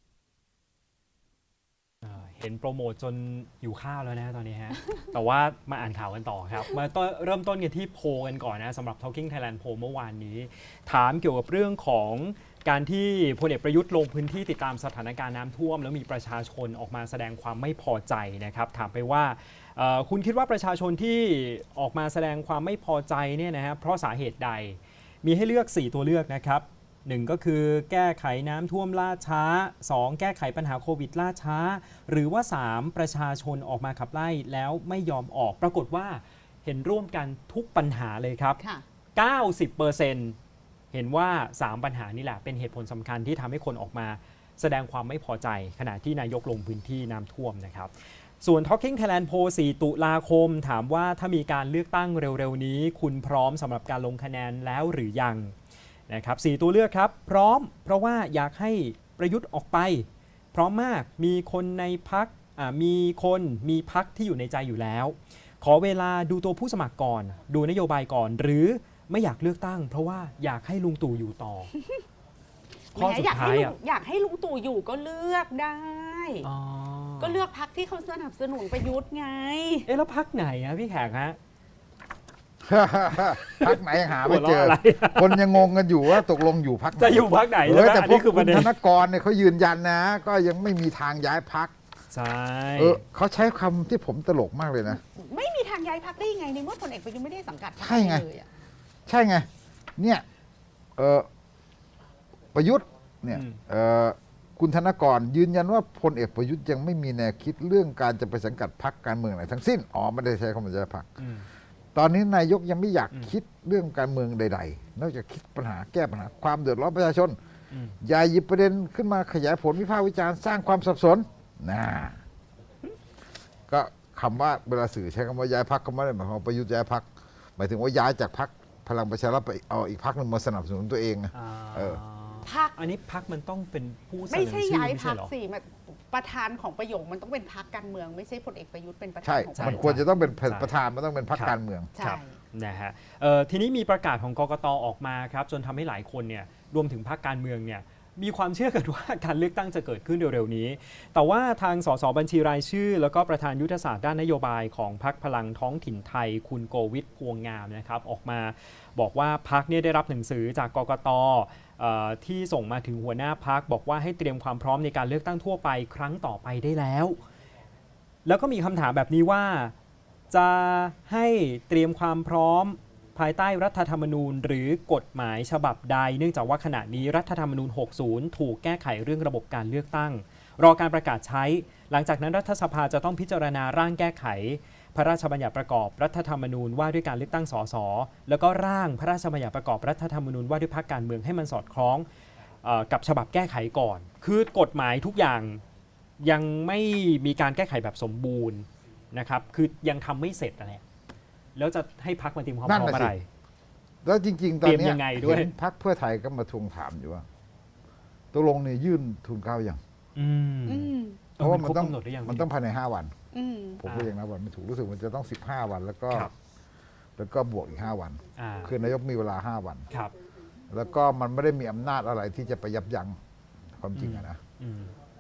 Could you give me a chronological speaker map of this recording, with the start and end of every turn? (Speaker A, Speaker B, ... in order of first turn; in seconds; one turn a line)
Speaker A: 2.0-38.6
Speaker A: 39.2-40.4
Speaker A: 40.9-55.5
Speaker A: 56.1-71.7
Speaker A: 73.0-73.7
Speaker B: 73.0-76.5
Speaker A: 76.4-77.4
Speaker B: 77.2-79.9
Speaker A: 79.9-81.4
Speaker C: 82.6-91.7
Speaker A: 83.4-85.5
Speaker A: 87.0-88.7
Speaker A: 92.1-93.0
Speaker C: 92.8-95.0
Speaker B: 94.9-98.5
Speaker C: 97.8-98.2
Speaker C: 99.1-100.2
Speaker C: 101.0-101.3
Speaker C: 102.5-111.2
Speaker A: 103.3-103.6
Speaker A: 111.2-111.5
Speaker C: 112.0-117.4
Speaker A: 117.7-118.0
Speaker C: 118.0-122.2
Speaker C: 123.7-132.0
Speaker A: 131.3-135.3
Speaker B: 132.4-132.7
Speaker B: 134.3-139.9
Speaker C: 139.2-141.9
Speaker A: 139.6-140.7
Speaker A: 141.3-167.2
Speaker B: 142.0-142.4
Speaker A: 168.2-169.7
Speaker A: 170.3-192.1
Speaker A: 192.6-195.6
Speaker A: 196.2-200.8
Speaker A: 201.6-203.3
Speaker C: 202.7-203.1
Speaker C: 204.0-207.3
Speaker A: 204.6-205.5
Speaker C: 208.3-209.8
Speaker A: 210.2-212.5
Speaker B: 210.7-211.2
Speaker C: 211.4-213.1
Speaker B: 213.3-213.8
Speaker C: 213.8-216.3
Speaker A: 213.8-214.1
Speaker C: 217.2-219.9
Speaker A: 218.4-218.7
Speaker C: 220.7-223.2
Speaker C: 223.8-224.4
Speaker A: 224.0-224.9